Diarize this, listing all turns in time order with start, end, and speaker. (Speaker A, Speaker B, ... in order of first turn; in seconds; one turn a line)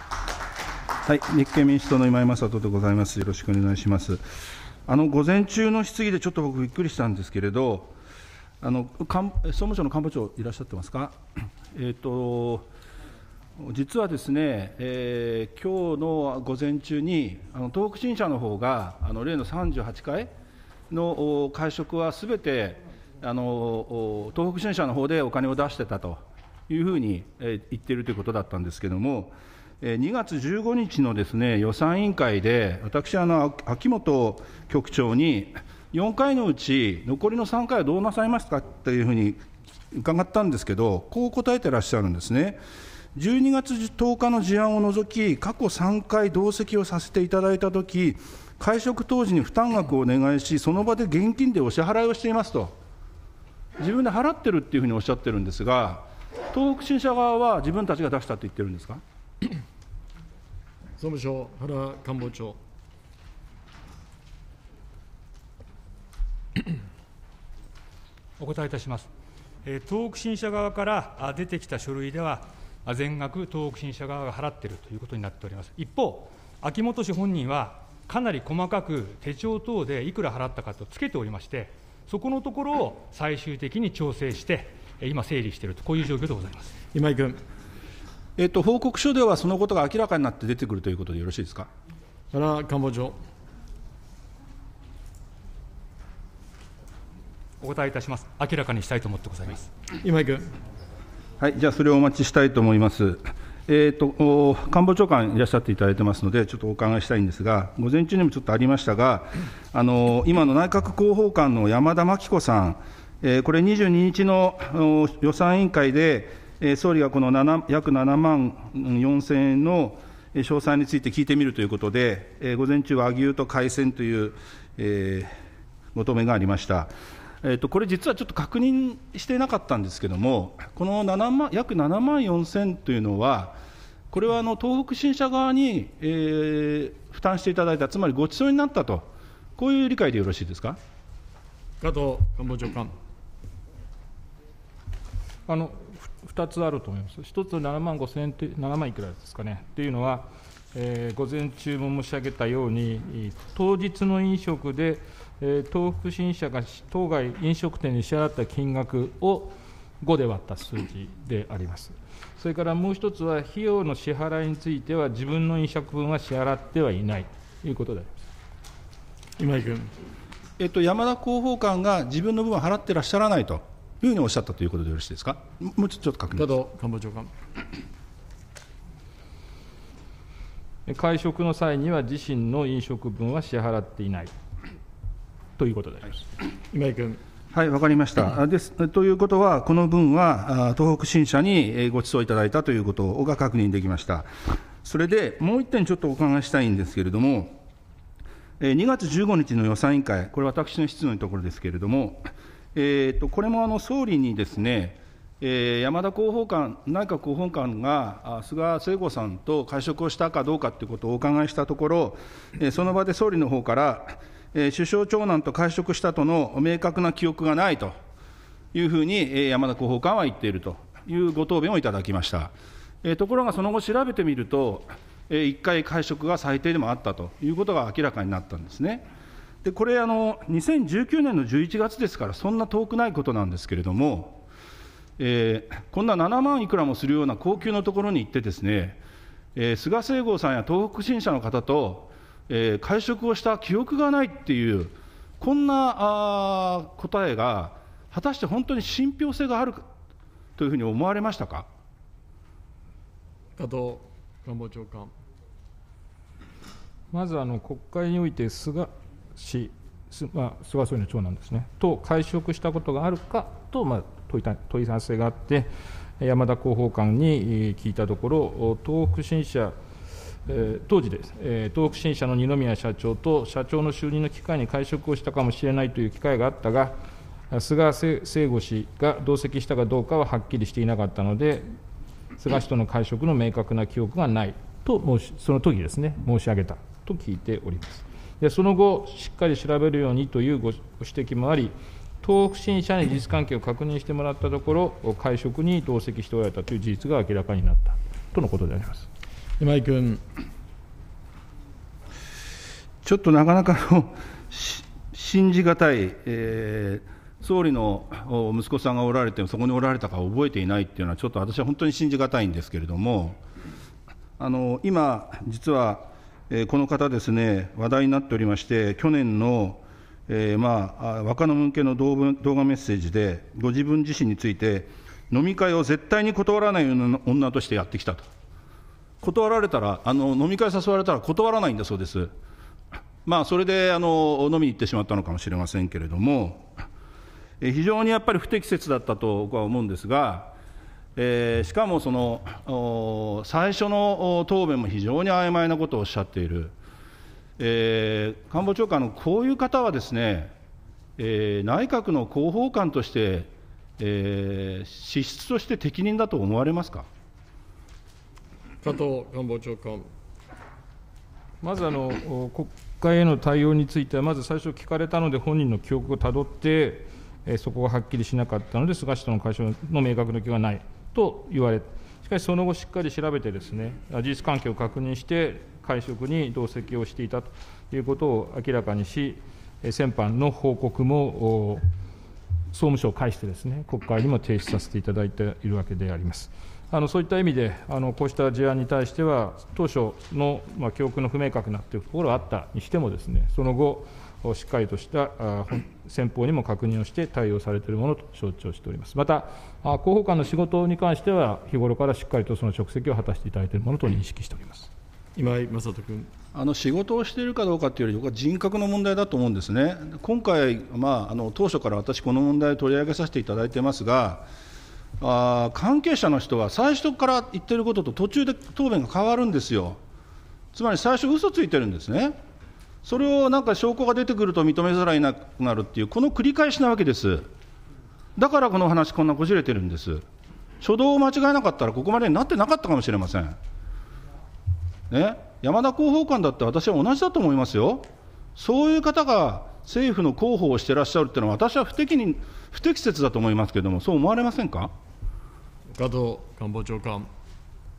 Speaker A: 1.0-4.2
Speaker A: 4.9-7.9
Speaker A: 8.6-11.2
Speaker A: 11.7-12.7
Speaker A: 13.6-20.3
Speaker A: 20.9-42.6
Speaker A: 43.1-52.8
Speaker A: 53.8-59.0
Speaker B: 61.0-62.6
Speaker C: 68.4-69.1
Speaker C: 69.6-86.7
Speaker B: 86.9-87.4
Speaker A: 88.4-91.7
Speaker B: 92.3-93.2
Speaker C: 97.6-99.7
Speaker B: 100.0-100.4
Speaker A: 101.4-125.3
Speaker A: 125.9-133.6
Speaker A: 134.1-140.8
Speaker B: 141.8-142.9
Speaker D: 145.5-168.1
Speaker B: 169.4-169.9
Speaker A: 170.6-176.5
Speaker B: 176.3-177.3
Speaker D: 180.9-184.3
Speaker D: 185.6-186.2
Speaker B: 186.7-187.2
Speaker A: 187.5-194.3
Speaker A: 194.8-197.6
Speaker A: 198.6-217.9
Speaker A: 218.7-229.1
Speaker A: 229.6-234.4
Speaker A: 235.2-239.0
Speaker A: 239.5-249.8
Speaker A: 250.6-251.7
Speaker B: 253.6-255.1
Speaker D: 257.1-269.7
Speaker D: 270.4-276.9
Speaker D: 277.5-281.7
Speaker D: 282.4-299.1
Speaker B: 299.6-300.2
Speaker A: 303.0-313.4
Speaker A: 314.4-328.2
Speaker A: 329.2-332.3
Speaker A: 333.2-336.8
Speaker A: 337.6-340.5
Speaker A: 341.1-346.7
Speaker A: 347.6-350.5
Speaker A: 351.2-357.1
Speaker B: 358.8-360.1
Speaker D: 361.6-381.8
Speaker D: 382.7-404.9
Speaker B: 405.4-406.3
Speaker A: 406.5-414.5
Speaker A: 415.2-420.0
Speaker A: 420.7-422.4
Speaker A: 423.0-427.5
Speaker A: 428.4-430.2
Speaker A: 430.8-433.6
Speaker A: 435.1-444.9
Speaker B: 445.9-447.3